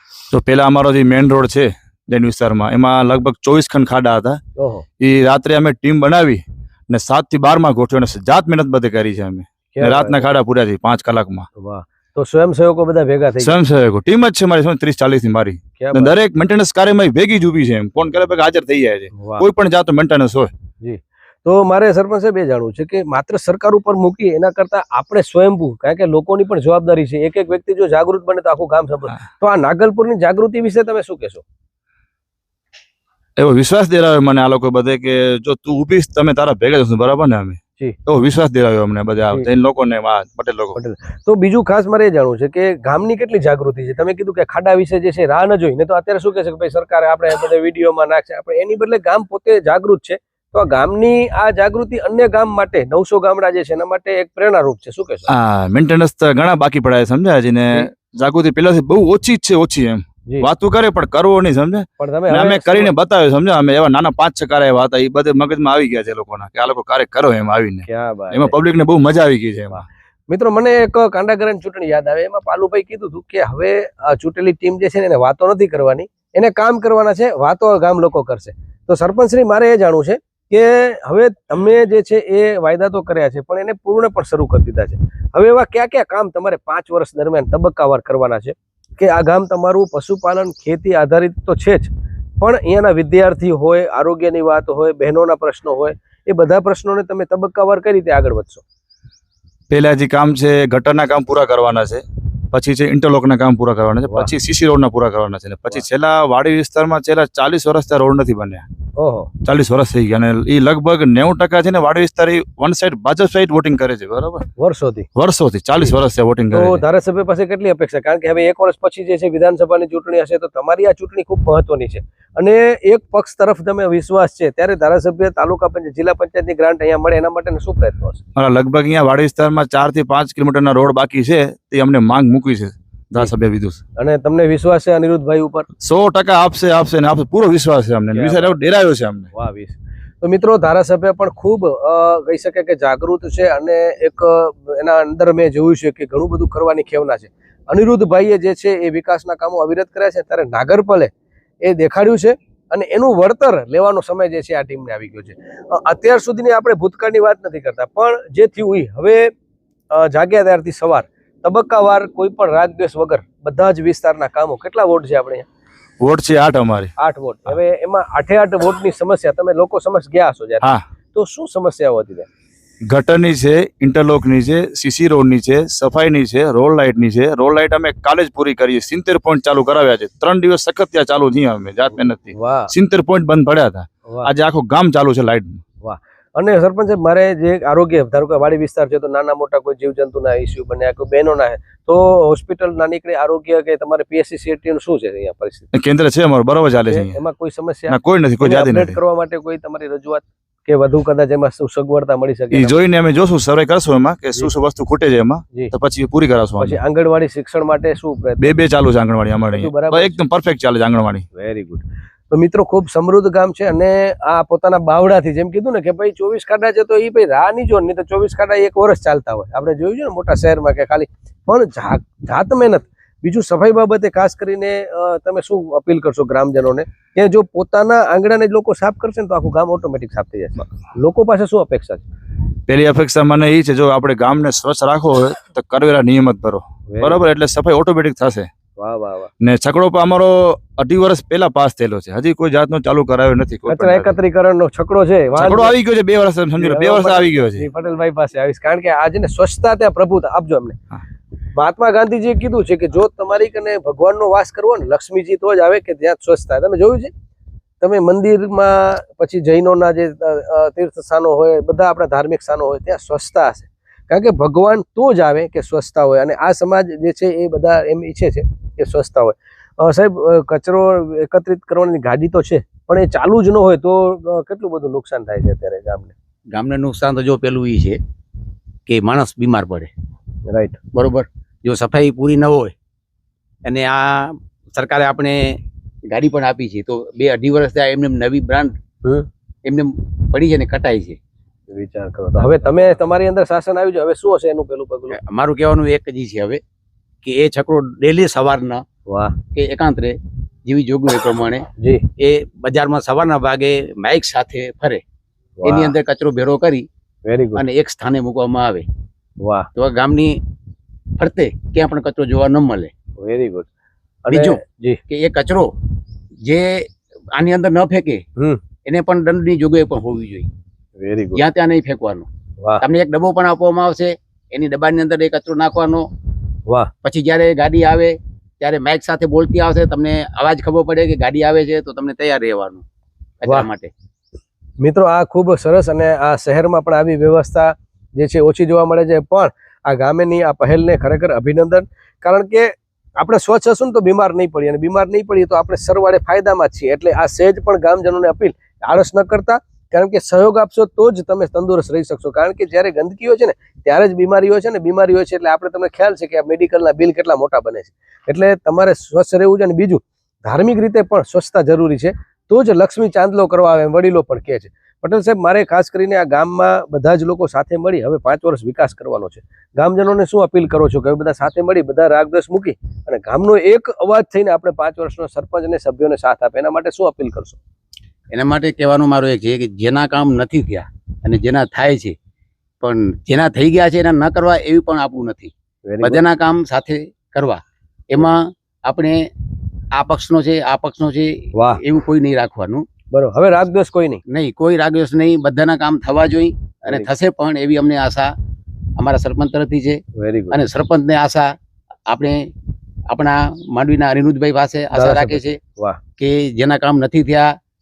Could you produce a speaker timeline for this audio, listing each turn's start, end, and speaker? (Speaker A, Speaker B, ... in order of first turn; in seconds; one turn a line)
Speaker A: 0.3-4.4
Speaker B: 4.6-4.8
Speaker A: 5.0-11.5
Speaker B: 9.7-10.2
Speaker B: 11.6-13.6
Speaker A: 13.4-20.5
Speaker B: 15.8-16.1
Speaker B: 19.1-19.4
Speaker B: 20.8-31.4
Speaker A: 33.4-40.8
Speaker B: 40.8-55.3
Speaker A: 55.3-69.8
Speaker B: 62.0-62.9
Speaker B: 67.9-68.5
Speaker B: 69.7-98.6
Speaker A: 99.7-108.6
Speaker B: 109.0-109.3
Speaker A: 109.4-114.5
Speaker B: 114.6-115.1
Speaker A: 115.2-116.8
Speaker B: 116.5-128.2
Speaker A: 128.3-133.8
Speaker B: 134.0-135.7
Speaker A: 135.8-139.3
Speaker B: 138.1-138.6
Speaker B: 139.3-151.1
Speaker B: 151.6-159.3
Speaker B: 159.9-165.5
Speaker A: 166.0-166.9
Speaker B: 167.0-172.3
Speaker A: 172.9-185.6
Speaker B: 182.3-182.7
Speaker B: 185.8-195.7
Speaker A: 195.7-197.2
Speaker B: 196.9-202.8
Speaker A: 197.9-199.0
Speaker A: 202.5-206.8
Speaker B: 206.6-208.6
Speaker A: 208.4-211.2
Speaker B: 209.5-210.2
Speaker B: 211.3-232.1
Speaker A: 232.7-238.5
Speaker B: 236.9-237.2
Speaker B: 238.8-239.3
Speaker A: 239.4-244.2
Speaker B: 243.7-245.8
Speaker A: 245.3-247.7
Speaker B: 246.6-250.8
Speaker B: 251.6-257.1
Speaker B: 257.8-276.1
Speaker C: 276.5-278.0
Speaker C: 278.9-279.9
Speaker B: 280.5-280.8
Speaker C: 280.9-282.7
Speaker C: 283.6-285.6
Speaker C: 286.1-288.7
Speaker C: 289.6-291.2
Speaker B: 291.7-295.1
Speaker C: 295.1-296.6
Speaker C: 297.2-298.8
Speaker B: 299.1-299.4
Speaker C: 299.5-300.1
Speaker C: 300.6-301.6
Speaker B: 301.8-302.0
Speaker C: 302.2-305.0
Speaker B: 305.6-305.9
Speaker C: 305.6-306.8
Speaker B: 307.2-307.6
Speaker C: 307.5-308.8
Speaker B: 309.4-309.7
Speaker C: 309.8-310.3
Speaker C: 311.2-312.9
Speaker B: 313.2-313.7
Speaker B: 314.2-315.0
Speaker C: 314.3-314.6
Speaker C: 315.1-315.7
Speaker C: 316.4-316.8
Speaker C: 317.3-318.2
Speaker C: 318.8-320.5
Speaker B: 321.0-321.4
Speaker C: 321.3-322.3
Speaker C: 322.8-326.0
Speaker C: 327.0-332.8
Speaker C: 333.4-333.9
Speaker B: 334.8-377.6
Speaker C: 378.3-382.1
Speaker C: 382.8-389.2
Speaker B: 385.9-386.2
Speaker C: 389.9-392.8
Speaker B: 391.5-391.8
Speaker B: 393.1-394.2
Speaker C: 394.3-398.3
Speaker C: 399.0-401.5
Speaker B: 400.2-400.6
Speaker C: 402.1-402.4
Speaker C: 403.1-405.6
Speaker B: 404.9-406.0
Speaker C: 406.2-407.5